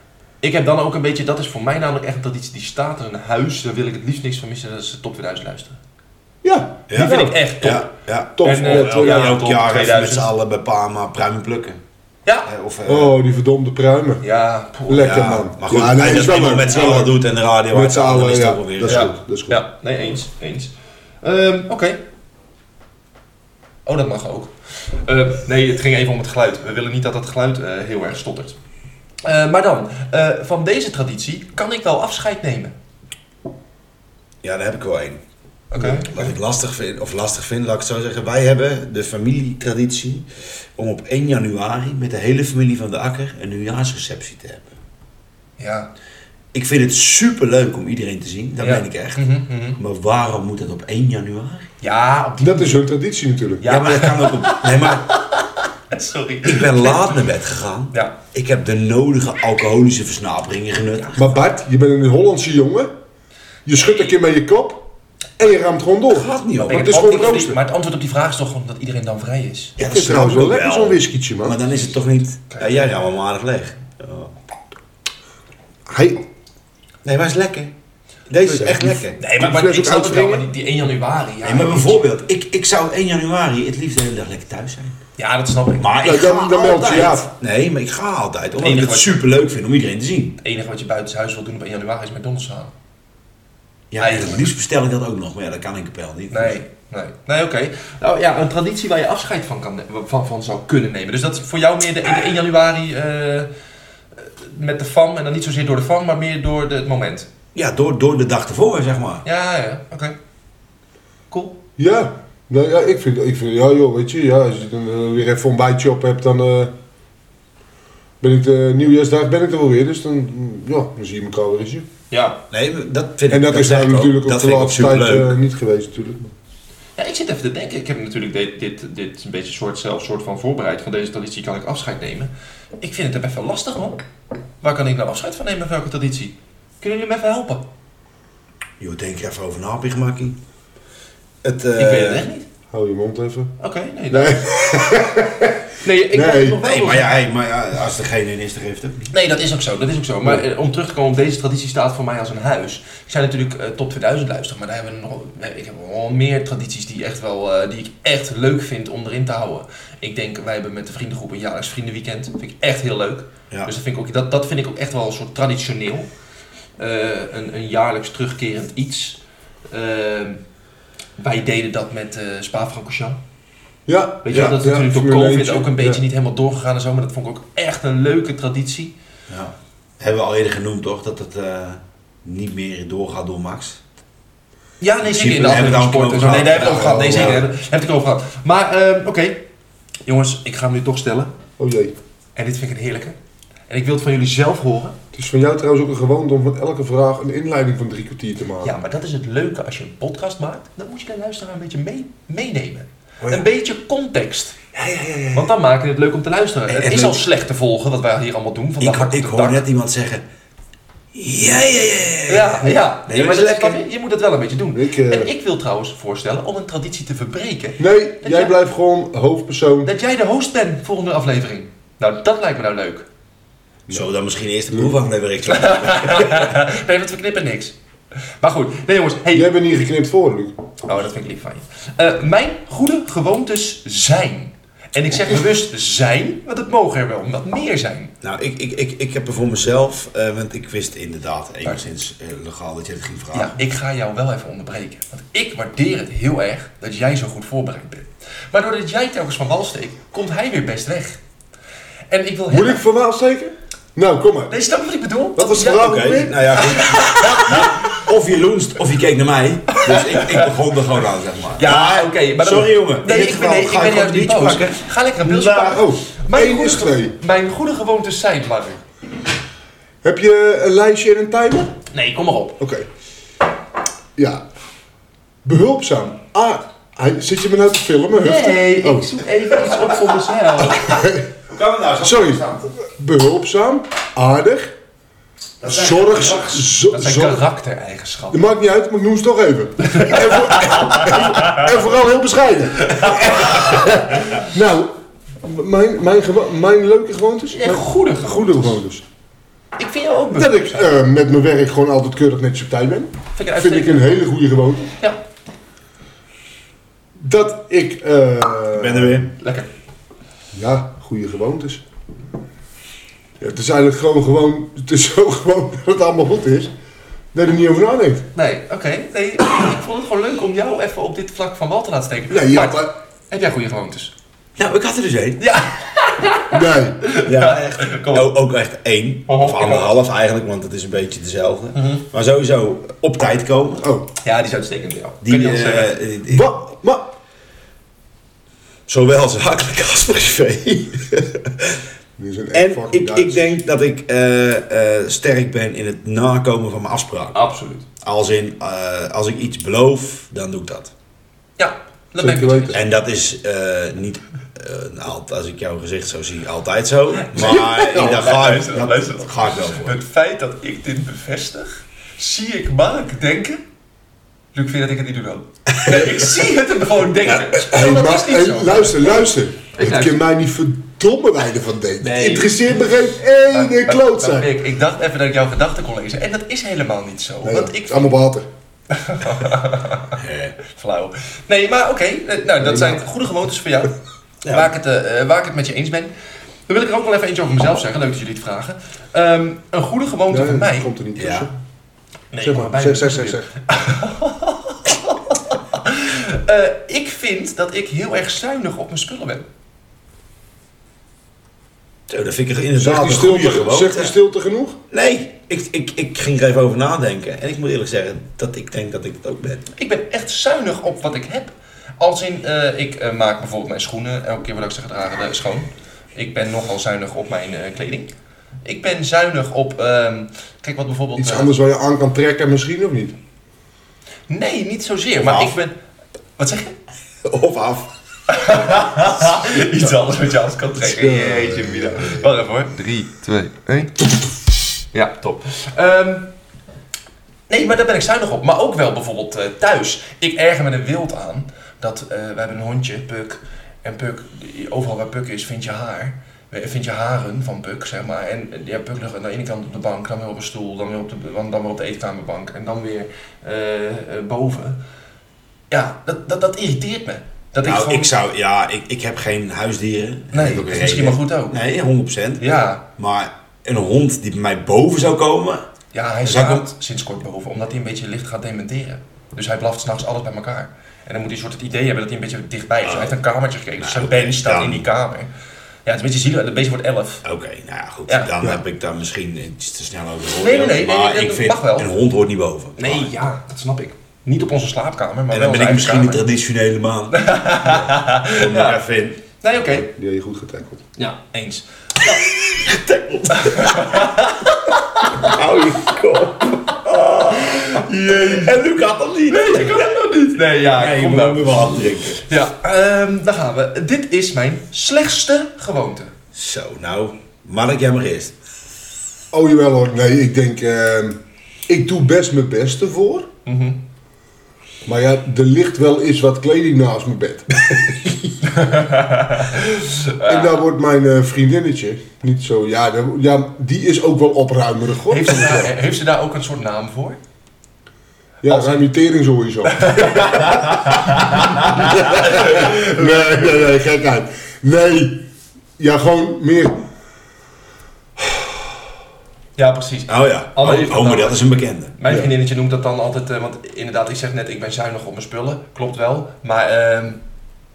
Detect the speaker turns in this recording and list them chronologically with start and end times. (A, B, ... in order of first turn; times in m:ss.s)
0:00.4-0:05.8 A
0:06.4-0:06.9 B
0:06.9-0:11.8 C
0:06.9-0:10.3 A
0:08.4-0:09.4 B
0:12.5-0:13.2 C
0:12.9-0:14.2 B
0:14.2-0:15.3 A
0:14.9-0:17.2 B
0:15.0-0:19.1 C
0:17.7-0:19.6 B
0:18.9-0:22.0 A
0:23.9-0:28.6 A
0:29.2-0:32.7 A
0:34.4-0:35.2 C
0:35.7-0:36.3 A
0:36.0-0:44.7 C
0:45.6-0:45.9 A
0:46.5-0:49.2 C
0:48.6-0:49.8 A
0:49.8-0:51.7 C
0:51.8-0:52.8 A
0:52.4-0:53.6 B
0:53.6-0:57.2 A
0:53.6-0:55.1 C
0:56.4-1:01.3 C
1:01.2-1:02.9 B
1:03.7-1:04.9 B
1:05.4-1:07.6 B
1:06.1-1:07.4 C
1:06.6-1:09.8 A
1:09.8-1:14.3 C
1:09.8-1:11.6 B
1:12.5-1:12.9 A
1:15.9-1:16.2 B
1:17.0-1:17.7 C
1:18.3-1:19.2 C
1:18.4-1:20.5 B
1:19.2-1:22.0 A
1:21.4-1:25.0 C
1:25.2-1:27.1 A
1:25.8-1:30.4 C
1:26.0-1:27.3 B
1:28.6-1:29.2 A
1:30.4-1:32.7 A
1:33.9-1:36.6 C
1:34.0-1:34.5 A
1:36.3-1:43.5 A
1:44.2-1:47.3 A
1:47.5-1:49.2 C
1:49.2-1:50.2 A
1:51.3-1:51.6 A
1:51.8-1:56.7 B
1:58.2-2:01.9 B
2:02.1-2:02.4 A
2:02.5-2:05.4 C
2:03.3-2:06.3 B
2:07.0-2:14.0 A
2:14.6-2:17.7 A
2:18.8-2:20.4 C
2:21.4-2:22.2 C
2:21.8-2:22.4 A
2:22.7-2:23.5 B
2:23.6-2:24.5 A
2:24.1-2:25.6 B
2:25.8-2:27.2 A
2:26.1-2:26.6 B
2:26.6-2:29.1 C
2:29.1-2:46.1 A
2:46.8-2:49.2 A
2:49.7-2:50.4 A
2:51.2-2:53.2 A
2:53.9-2:56.0 B
2:54.2-2:58.9 A
2:59.3-3:03.8 C
3:04.8-3:09.4 A
3:05.0-3:07.5 C
3:06.5-3:07.4 B
3:10.1-3:11.3 A
3:11.6-3:11.9 B
3:12.4-3:13.2 A
3:13.7-3:15.0 A
3:15.1-3:18.7 B
3:18.6-3:24.6 A
3:24.8-3:25.2 C
3:25.3-3:29.6 A
3:26.7-3:27.2 C
3:28.8-3:30.2 C
3:31.1-3:33.8 C
3:32.3-3:38.6 A
3:34.7-3:35.3 B
3:37.8-3:39.9 B
3:39.8-3:43.1 A
3:43.9-3:46.6 C
3:45.5-3:47.8 A
3:48.4-3:49.5 A
3:49.3-3:50.6 B
3:50.8-3:58.1 A
3:58.2-4:03.6 C
4:03.3-4:11.2 A
4:12.1-4:12.8 A
4:12.5-4:14.5 B
4:14.5-4:18.0 A
4:15.4-4:16.7 B
4:15.8-4:25.8 C
4:19.7-4:20.5 A
4:21.6-4:28.8 A
4:25.2-4:27.2 B
4:30.0-4:31.7 B
4:31.9-4:32.6 A
4:32.6-4:32.9 B
4:34.2-4:34.4 B
4:35.4-4:39.2 B
4:38.2-4:41.0 A
4:40.6-4:41.3 B
4:41.5-4:42.7 C
4:42.0-4:44.7 B
4:45.6-4:46.6 C
4:45.6-4:47.4 B
4:46.9-4:48.4 A
4:48.3-4:59.0 B
4:49.8-4:51.6 A
4:52.8-4:54.0 A
4:57.5-4:58.8 A
4:59.8-5:00.9 A
5:00.3-5:04.9 B
5:03.4-5:04.2 A
5:07.2-5:09.3 B
5:08.7-5:09.3 C
5:09.4-5:09.7 A
5:10.5-5:11.8 B
5:13.4-5:16.7 B
5:17.3-5:18.3 B
5:18.4-5:24.1 A
5:22.3-5:22.9 B
5:24.6-5:25.4 C
5:25.4-5:28.4 A
5:26.5-5:27.0 B
5:27.2-5:33.9 C
5:29.3-5:29.9 A
5:31.7-5:32.0 A
5:33.8-5:34.1 B
5:34.2-5:36.0 A
5:35.2-5:36.5 C
5:36.3-5:37.1 B
5:38.9-5:41.8 C
5:42.2-5:43.5 B
5:42.5-5:47.4 C
5:47.3-5:47.9 A
5:48.0-5:50.9 C
5:51.6-5:52.8 A
5:52.2-5:52.8 B
5:52.7-6:00.0 C
5:57.2-6:03.6 A
6:04.5-6:10.2 A
6:05.8-6:06.3 C
6:07.6-6:14.5 B
6:12.0-6:12.8 A
6:13.5-6:18.2 A
6:17.4-6:18.5 B
6:18.9-6:23.9 A
6:20.2-6:20.6 C
6:22.6-6:23.0 B
6:24.4-6:24.7 C
6:24.5-6:26.1 A
6:26.7-6:30.9 A
6:30.3-6:31.5 B
6:31.2-6:31.5 C
6:32.3-6:39.5 A
6:32.4-6:33.5 B
6:42.1-6:44.2 C
6:42.8-6:44.8 B
6:44.9-6:49.7 C
6:49.7-6:58.1 A
6:58.6-7:01.5 A
7:01.2-7:03.2 B
7:04.3-7:05.7 A
7:05.2-7:05.6 C
7:06.4-7:06.8 A
7:07.2-7:07.9 C
7:08.3-7:14.1 A
7:10.8-7:12.2 B
7:14.9-7:16.3 A
7:17.5-7:34.8 A
7:35.7-7:38.1 A
7:37.6-7:45.6 C
7:40.3-7:41.6 A
7:42.4-7:42.8 A
7:45.9-7:55.3 A
7:46.2-7:46.7 C
7:52.8-7:53.2 C
7:53.8-7:54.9 C
7:55.9-7:57.2 A
7:57.2-8:03.1 C
7:58.1-7:58.6 A
8:00.4-8:01.9 A
8:02.8-8:06.2 A
8:05.3-8:09.7 C
8:07.1-8:08.8 A
8:09.4-8:09.9 A
8:09.8-8:10.8 B
8:11.0-8:12.2 A
8:12.0-8:14.2 C
8:13.3-8:15.4 A
8:15.2-8:22.3 C
8:17.3-8:18.6 A
8:19.3-8:26.1 A
8:26.3-8:28.4 C
8:29.3-8:33.3 B
8:33.4-8:33.8 A
8:34.9-8:38.1 B
8:38.4-8:40.6 A
8:40.2-8:45.7 B
8:45.1-8:47.2 A
8:48.4-8:55.3 B
8:48.5-8:48.9 A
8:49.7-8:53.4 A
8:55.8-8:56.8 B
8:59.6-9:07.2 A
9:00.1-9:01.9 C